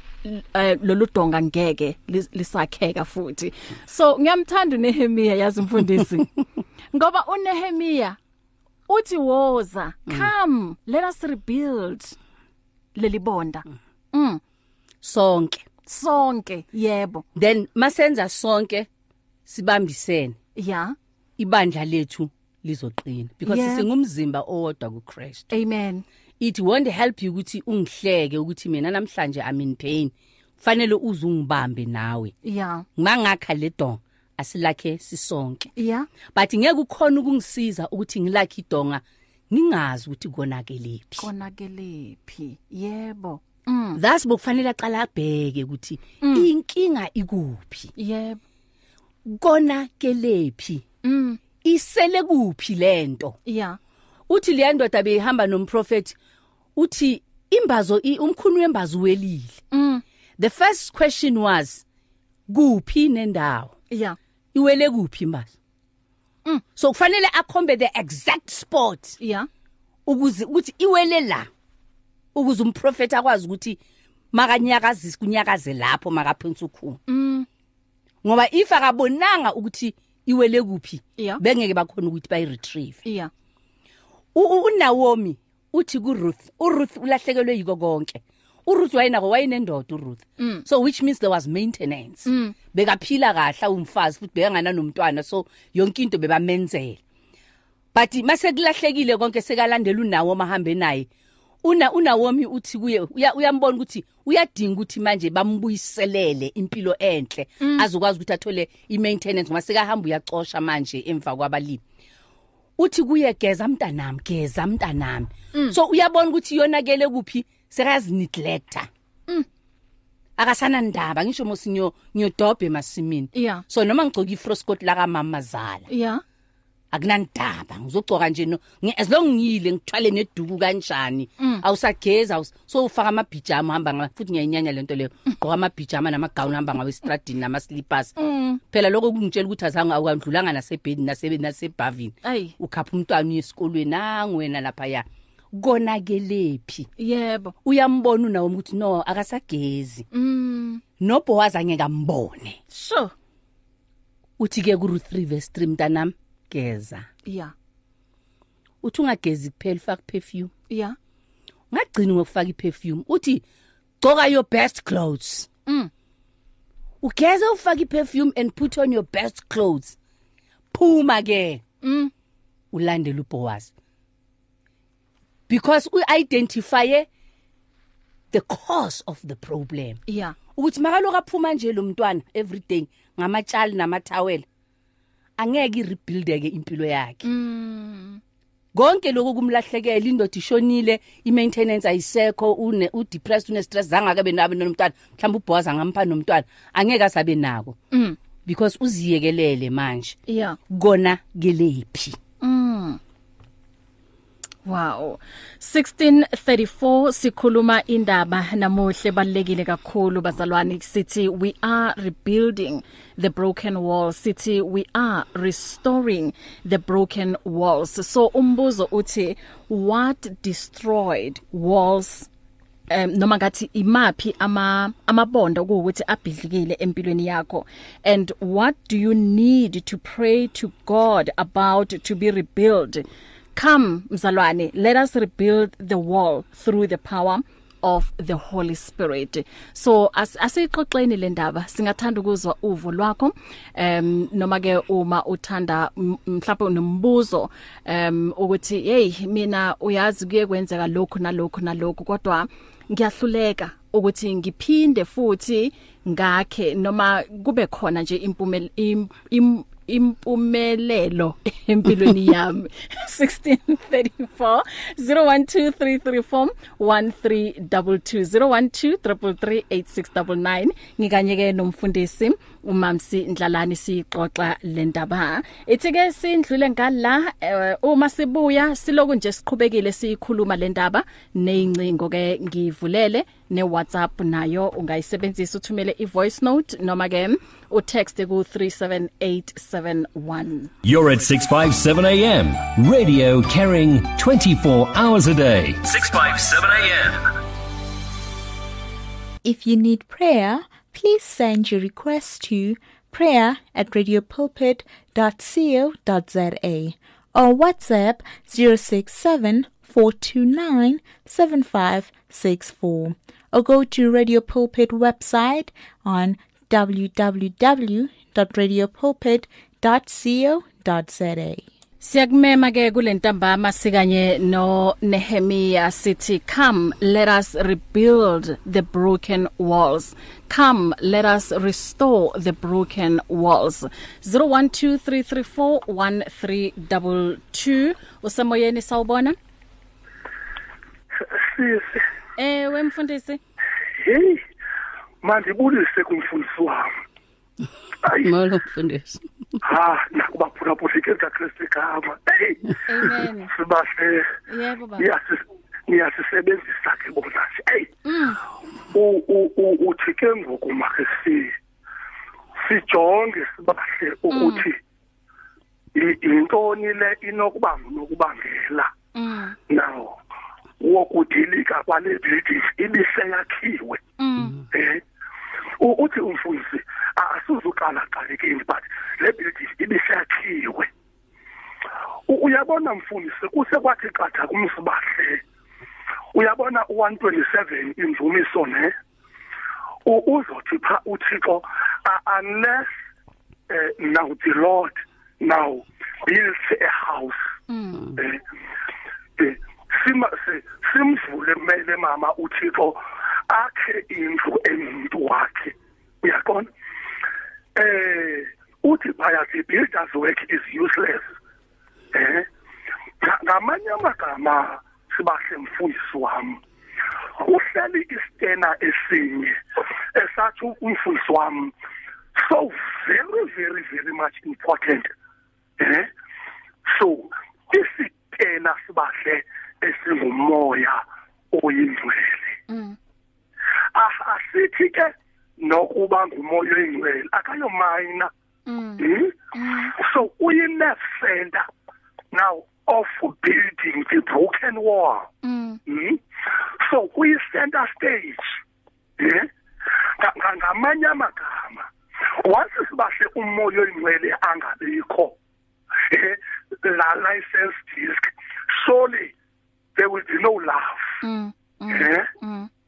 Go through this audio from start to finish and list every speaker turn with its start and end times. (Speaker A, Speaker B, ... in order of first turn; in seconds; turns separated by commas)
Speaker A: 0.2-6.3, Speaker A: 6.9-8.2, Speaker A: 8.9-12.1, Speaker A: 12.9-14.4, Speaker B: 15.0-15.7, Speaker A: 15.9-17.2, Speaker B: 17.4-18.9, Speaker B: 19.5-20.4, Speaker A: 20.6-20.9, Speaker B: 21.4-25.5, Speaker A: 23.4-23.8, Speaker A: 25.5-26.0, Speaker B: 26.4-32.3, Speaker A: 32.4-32.8, Speaker B: 33.0-35.7, Speaker A: 35.8-36.1, Speaker B: 36.3-41.3, Speaker A: 41.2-44.0, Speaker B: 44.0-47.9, Speaker A: 46.2-46.5, Speaker A: 48.0-48.4, Speaker B: 49.2-50.8, Speaker A: 51.0-51.4, Speaker B: 51.6-53.4, Speaker A: 53.5-53.8, Speaker B: 54.3-56.1, Speaker B: 56.8-59.6, Speaker A: 59.7-60.0, Speaker B: 60.4-61.8, Speaker B: 62.5-63.8, Speaker A: 63.9-64.2, Speaker B: 64.5-65.5, Speaker B: 66.8-69.2, Speaker A: 69.2-69.5, Speaker B: 70.0-71.5, Speaker B: 72.3-73.8, Speaker B: 74.3-77.0, Speaker A: 77.1-77.5, Speaker B: 78.2-83.0, Speaker A: 83.0-83.3, Speaker B: 84.3-97.0, Speaker A: 90.4-90.6, Speaker A: 92.2-92.5, Speaker B: 97.9-101.1, Speaker B: 101.6-111.8, Speaker A: 107.6-107.9, Speaker B: 112.8-118.9, Speaker B: 120.4-125.9, Speaker A: 123.3-123.6, Speaker A: 125.9-126.2, Speaker B: 126.9-138.1, Speaker A: 138.2-138.6, Speaker B: 138.7-146.9, Speaker A: 142.2-142.5, Speaker A: 147.0-147.5, Speaker B: 147.6-150.1, Speaker A: 150.1-150.8, Speaker B: 151.0-152.6, Speaker A: 152.7-153.1, Speaker B: 154.4-157.1, Speaker A: 157.2-157.5, Speaker B: 158.8-160.5, Speaker A: 160.7-160.9, Speaker B: 161.7-163.4, Speaker B: 164.0-165.5, Speaker B: 167.0-169.9, Speaker B: 170.7-171.6, Speaker A: 171.8-172.1, Speaker B: 172.7-173.7, Speaker B: 175.5-177.1, Speaker B: 178.3-180.0, Speaker A: 180.1-180.4, Speaker B: 180.5-184.4, Speaker B: 185.4-187.2, Speaker A: 187.2-188.2, Speaker B: 188.7-197.8, Speaker A: 197.9-198.2, Speaker B: 198.4-200.2, Speaker A: 200.3-200.6, Speaker B: 200.7-202.2, Speaker A: 202.4-203.0, Speaker A: 204.7-222.3, Speaker A: 222.9-290.7, Speaker C: 290.8-297.2, Speaker D: 299.4-321.6, Speaker A: 322.0-339.4, Speaker E: 341.2-342.0, Speaker A: 342.4-343.4, Speaker E: 344.0-344.4, Speaker E: 345.2-346.9, Speaker E: 348.0-348.3, Speaker B: 348.2-349.2, Speaker E: 349.6-354.3, Speaker A: 352.9-353.5, Speaker A: 354.5-355.1, Speaker E: 355.0-357.9, Speaker A: 358.0-358.4, Speaker E: 358.9-361.5, Speaker E: 362.6-364.8, Speaker A: 364.3-364.6, Speaker E: 365.9-368.9, Speaker A: 369.1-369.6, Speaker E: 369.7-370.2, Speaker E: 370.8-374.0, Speaker A: 374.2-374.6, Speaker E: 374.7-375.0, Speaker E: 375.8-380.9, Speaker E: 382.3-385.4, Speaker E: 386.3-388.9, Speaker E: 390.1-392.9, Speaker E: 393.7-397.4, Speaker A: 397.7-398.1, Speaker E: 398.1-398.4, Speaker E: 399.4-406.7, Speaker E: 407.8-411.3, Speaker E: 412.1-412.5, Speaker E: 413.2-416.6, Speaker E: 417.4-419.6, Speaker E: 420.1-421.7, Speaker E: 422.4-425.1, Speaker E: 425.8-426.1, Speaker E: 426.9-432.5, Speaker A: 432.7-433.0, Speaker E: 433.9-438.3, Speaker A: 438.7-439.9, Speaker E: 439.0-439.3, Speaker E: 440.0-441.7, Speaker E: 442.3-445.3, Speaker A: 445.4-445.8, Speaker E: 445.9-446.2, Speaker E: 446.8-448.6, Speaker E: 449.2-449.5, Speaker E: 450.2-451.9, Speaker E: 452.4-455.3, Speaker E: 456.1-459.3, Speaker E: 459.9-461.1, Speaker A: 461.2-462.7, Speaker E: 461.9-462.3